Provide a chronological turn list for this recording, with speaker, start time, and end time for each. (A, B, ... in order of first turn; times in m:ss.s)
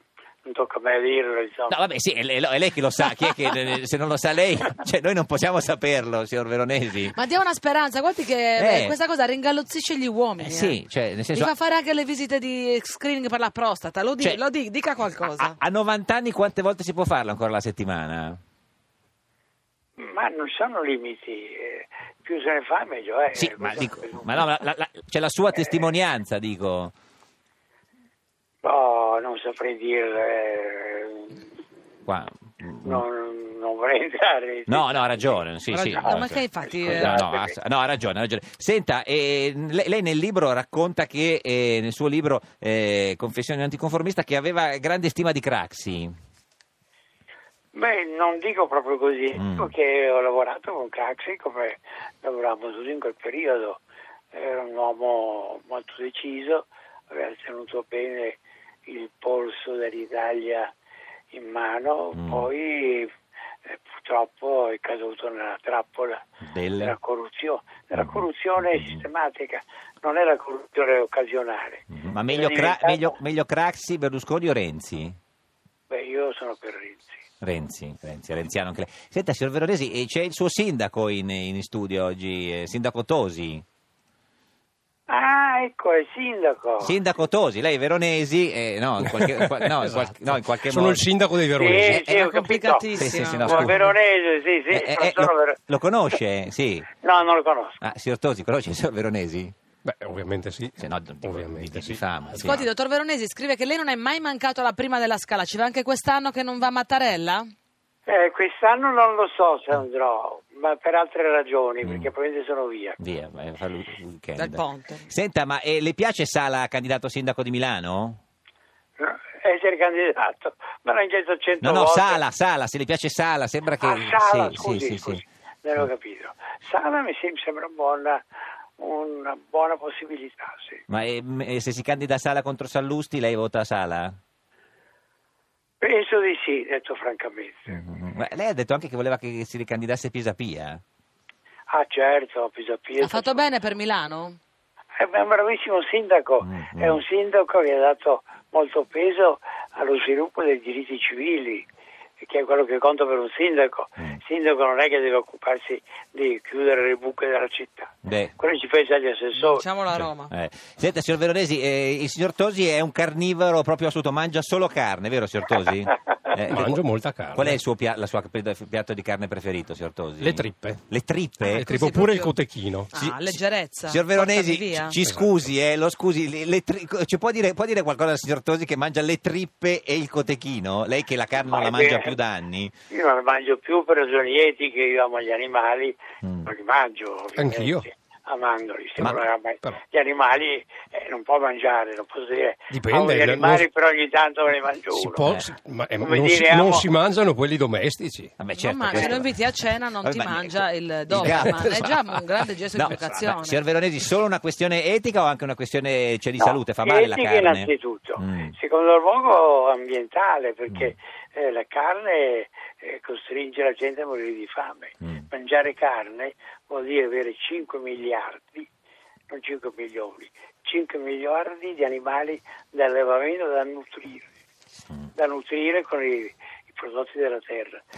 0:00.4-0:01.8 A
0:01.7-0:07.2 B
0:07.1-0:10.8 C
0:08.6-0:09.0 B
0:10.4-0:11.5 B
0:11.3-0:15.6 C
0:15.3-0:18.4 B
0:20.0-0:24.5 A
0:23.4-0:26.9 B
0:28.6-0:31.4 A
0:32.1-0:33.0 B
0:32.8-0:35.5 A
0:34.7-0:46.1 B
0:35.7-0:37.2 C
0:36.0-0:37.6 A
0:47.7-0:53.8 A
0:49.4-0:49.7 B
0:54.3-1:00.7 A
1:01.3-1:03.1 A
1:02.1-1:02.5 B
1:03.7-1:06.2 A
1:06.4-1:07.0 B
1:06.8-1:13.2 A
1:08.0-1:09.0 B
1:11.9-1:15.2 B
1:15.9-1:17.2 A
1:17.4-1:23.6 B
1:25.1-1:27.0 A
1:26.8-1:31.0 B
1:29.1-1:32.0 D
1:31.6-1:35.6 A
1:31.8-1:32.4 B
1:32.2-1:33.8 C
1:32.9-1:33.9 B
1:34.7-1:36.9 B
1:37.0-1:37.8 A
1:37.8-1:39.5 B
1:39.8-1:42.5 D
1:40.8-1:42.7 B
1:42.4-1:47.5 C
1:48.1-1:53.0 A
1:51.8-1:52.1 B
1:53.0-1:58.2 B
1:54.4-1:55.1 C
1:59.0-2:02.2 A
2:01.6-2:05.2 B
2:03.8-2:08.2 A
2:08.8-2:10.8 A
2:10.9-2:14.2 B
2:15.8-2:17.8 A
2:17.7-2:20.8 B
2:21.7-2:23.5 A
2:23.0-2:24.4 C
2:25.0-2:31.7 A
2:26.4-2:27.0 B
2:32.2-2:39.7 A
2:38.0-2:38.3 B
2:39.3-2:40.3 C
2:39.9-2:46.8 B
2:46.5-2:47.6 D
2:47.3-2:51.6 B
2:50.2-2:50.8 D
2:51.4-2:52.9 D
2:51.6-2:52.3 C
2:52.9-2:55.0 C
2:53.0-3:02.7 B
2:55.0-2:55.5 D
3:01.4-3:02.2 A
3:02.9-3:15.3 A
3:06.2-3:06.5 B
3:07.4-3:07.9 D
3:09.0-3:09.8 D
3:09.0-3:09.3 B
3:12.7-3:13.7 D
3:14.9-3:18.3 D
3:16.0-3:16.9 A
3:18.4-3:19.5 B
3:18.6-3:23.6 C
3:18.9-3:19.2 A
3:20.0-3:22.1 B
3:22.7-3:28.6 B
3:26.4-3:38.7 A
3:39.3-3:44.3 A
3:45.2-3:47.8 A